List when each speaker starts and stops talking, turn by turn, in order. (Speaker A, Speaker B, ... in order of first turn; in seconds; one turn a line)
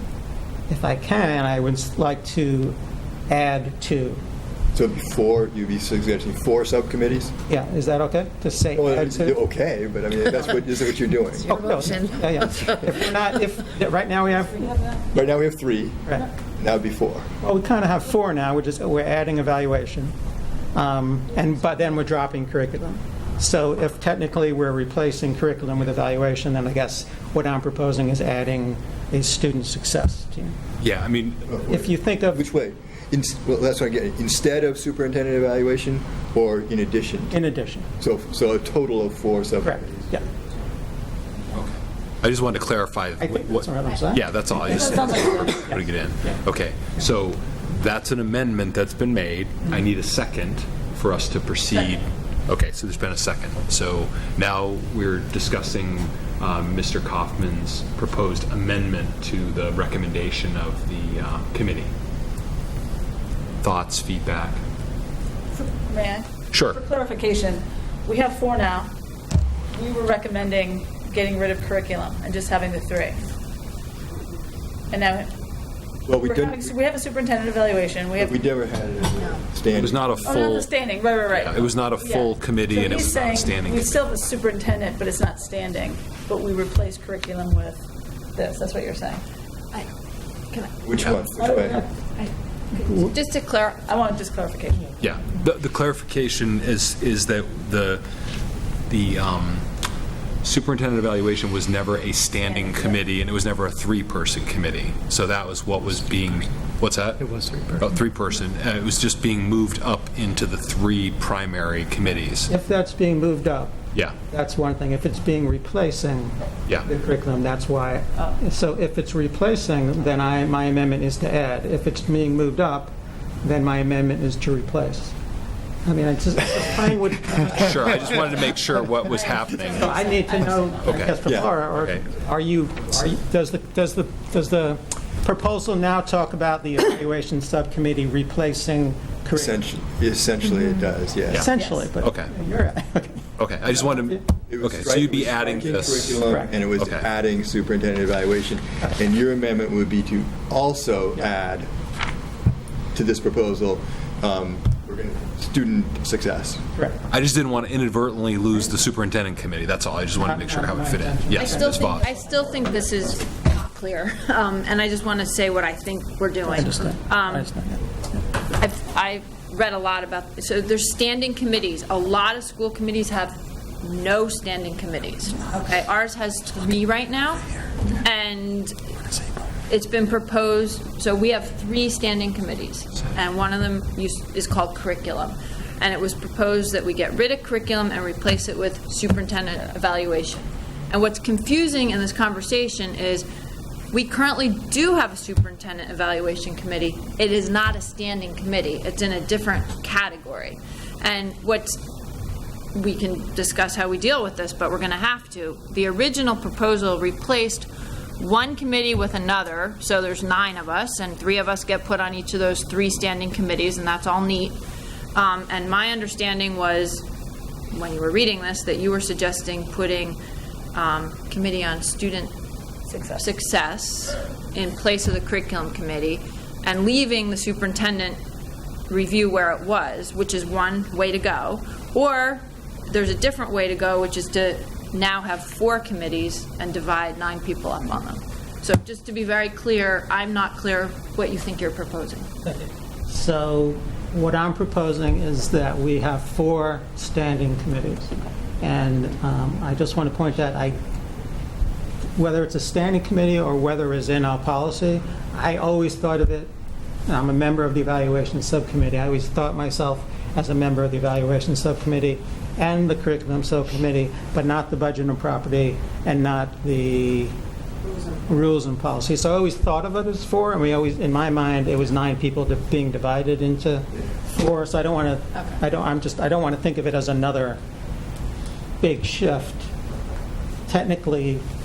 Speaker A: 0.7-2.8
Speaker A: 3.3-4.2
Speaker B: 4.7-7.3
Speaker A: 7.5-9.4
Speaker B: 8.7-11.6
Speaker A: 11.4-15.0
Speaker B: 15.1-17.3
Speaker A: 17.4-20.1
Speaker A: 20.7-30.5
Speaker C: 30.8-31.5
Speaker B: 31.5-37.3
Speaker A: 31.7-32.4
Speaker A: 37.3-37.9
Speaker B: 38.0-40.1
Speaker A: 39.6-40.2
Speaker C: 41.5-61.9
Speaker A: 43.2-46.4
Speaker C: 63.6-64.6
Speaker D: 65.7-68.9
Speaker C: 66.5-66.8
Speaker D: 69.7-73.2
Speaker D: 74.9-75.3
Speaker B: 76.1-76.7
Speaker D: 76.2-78.3
Speaker B: 78.2-80.4
Speaker C: 79.7-80.7
Speaker D: 80.2-87.8
Speaker C: 81.3-84.0
Speaker D: 88.3-89.2
Speaker B: 90.8-91.8
Speaker A: 91.4-91.8
Speaker E: 92.2-93.8
Speaker A: 92.8-93.1
Speaker D: 93.8-94.9
Speaker C: 95.0-98.0
Speaker C: 98.9-99.7
Speaker C: 100.4-112.5
Speaker A: 107.3-107.7
Speaker A: 112.5-113.7
Speaker A: 114.3-125.1
Speaker A: 125.8-128.7
Speaker C: 127.5-131.2
Speaker A: 129.6-139.6
Speaker B: 131.2-131.5
Speaker C: 131.8-132.0
Speaker B: 139.3-141.5
Speaker A: 141.3-144.2
Speaker C: 141.3-142.3
Speaker D: 141.5-141.8
Speaker C: 143.4-146.2
Speaker B: 144.5-151.7
Speaker A: 146.2-146.5
Speaker C: 146.8-147.1
Speaker B: 152.9-156.6
Speaker C: 157.1-162.1
Speaker A: 160.2-162.6
Speaker E: 161.3-167.5
Speaker A: 166.4-167.8
Speaker E: 168.6-178.8
Speaker E: 179.7-193.3
Speaker E: 193.9-201.8
Speaker E: 202.7-214.6
Speaker E: 215.1-217.0
Speaker E: 217.7-220.2
Speaker E: 220.7-222.3
Speaker D: 222.9-223.3
Speaker E: 223.2-228.2
Speaker E: 228.9-242.3
Speaker A: 242.4-250.8
Speaker A: 252.2-256.5
Speaker A: 257.1-267.3
Speaker A: 268.2-277.6
Speaker A: 278.8-279.7
Speaker A: 280.7-281.4